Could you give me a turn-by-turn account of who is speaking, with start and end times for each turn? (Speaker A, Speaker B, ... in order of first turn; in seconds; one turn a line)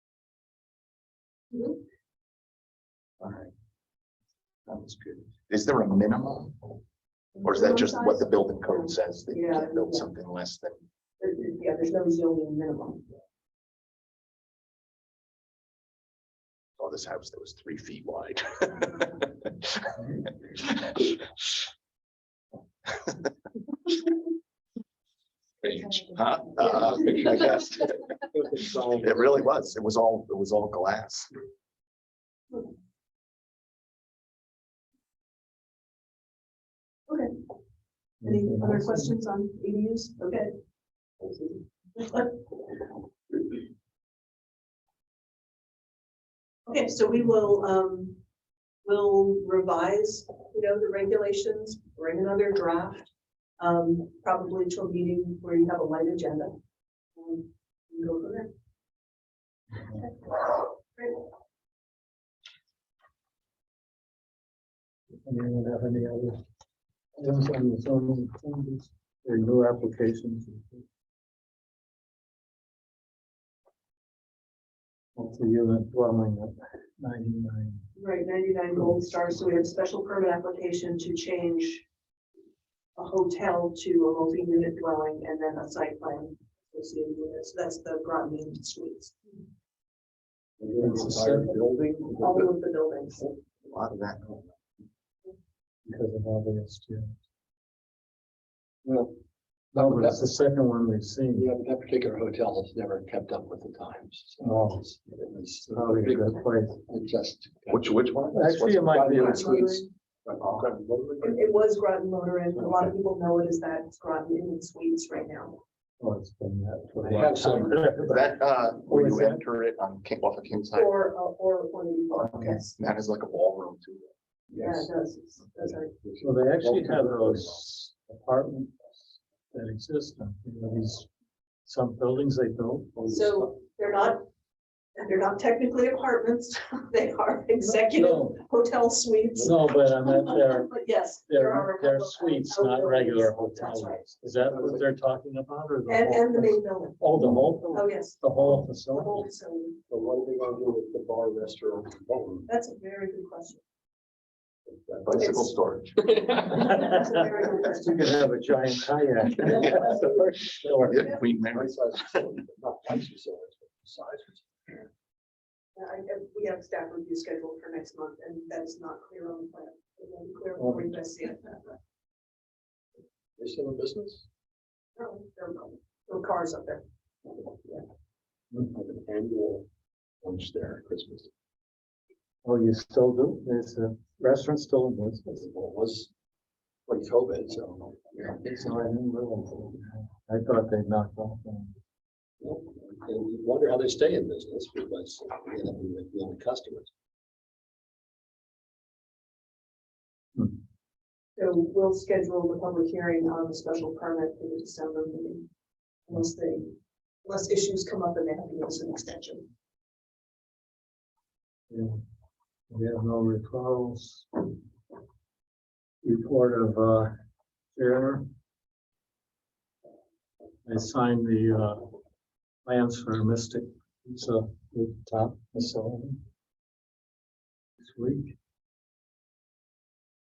Speaker A: 1.5-1.8
Speaker B: 3.2-3.5
Speaker B: 4.7-6.8
Speaker A: 7.3-10.1
Speaker B: 7.4-10.8
Speaker A: 11.2-13.1
Speaker B: 16.8-21.3
Speaker B: 25.6-28.1
Speaker C: 28.4-29.2
Speaker B: 28.9-31.3
Speaker A: 37.1-37.3
Speaker D: 38.2-39.1
Speaker A: 38.2-40.5
Speaker A: 41.2-42.5
Speaker A: 46.7-48.2
Speaker A: 48.9-56.5
Speaker A: 57.2-58.5
Speaker A: 60.0-61.2
Speaker D: 65.2-66.4
Speaker D: 67.2-70.8
Speaker D: 75.2-77.8
Speaker A: 78.0-81.8
Speaker A: 83.0-89.2
Speaker C: 90.6-92.5
Speaker D: 90.8-91.6
Speaker A: 92.2-93.3
Speaker B: 93.7-94.3
Speaker D: 95.9-97.1
Speaker C: 98.8-99.1
Speaker C: 99.8-100.3
Speaker D: 99.8-101.5
Speaker C: 101.3-111.4
Speaker D: 104.4-104.9
Speaker D: 105.7-106.8
Speaker B: 107.7-108.9
Speaker D: 108.3-109.6
Speaker A: 109.2-109.8
Speaker A: 111.2-115.6
Speaker C: 112.5-112.9
Speaker D: 116.0-119.4
Speaker C: 117.0-117.9
Speaker B: 117.8-120.9
Speaker A: 120.7-122.7
Speaker B: 122.1-124.1
Speaker C: 124.5-124.9
Speaker A: 124.6-125.9
Speaker C: 126.0-127.5
Speaker D: 126.2-131.1
Speaker D: 131.7-133.0
Speaker C: 133.0-133.4
Speaker A: 133.1-134.3
Speaker A: 135.0-144.0
Speaker D: 137.6-138.4
Speaker D: 139.4-140.8
Speaker D: 141.3-149.2
Speaker C: 144.5-144.8
Speaker A: 145.9-149.8
Speaker C: 149.9-152.5
Speaker A: 152.5-153.6
Speaker C: 154.7-155.3
Speaker B: 155.0-156.8
Speaker A: 155.2-155.5
Speaker A: 156.3-158.1
Speaker D: 157.6-161.1
Speaker B: 159.4-161.7
Speaker A: 159.8-160.1
Speaker C: 161.5-164.9
Speaker A: 165.8-171.8
Speaker D: 170.6-171.0
Speaker C: 173.4-174.2
Speaker A: 175.0-176.8
Speaker C: 178.6-179.7
Speaker C: 180.2-181.3
Speaker D: 182.4-185.4
Speaker C: 185.4-186.1
Speaker C: 186.9-188.4
Speaker D: 188.2-191.8
Speaker C: 192.4-196.9
Speaker A: 201.4-205.4
Speaker A: 206.1-209.5
Speaker D: 211.7-212.0
Speaker D: 212.7-214.5
Speaker D: 216.0-217.2
Speaker D: 217.7-218.3
Speaker D: 220.7-221.9
Speaker D: 222.7-226.2
Speaker D: 227.8-228.4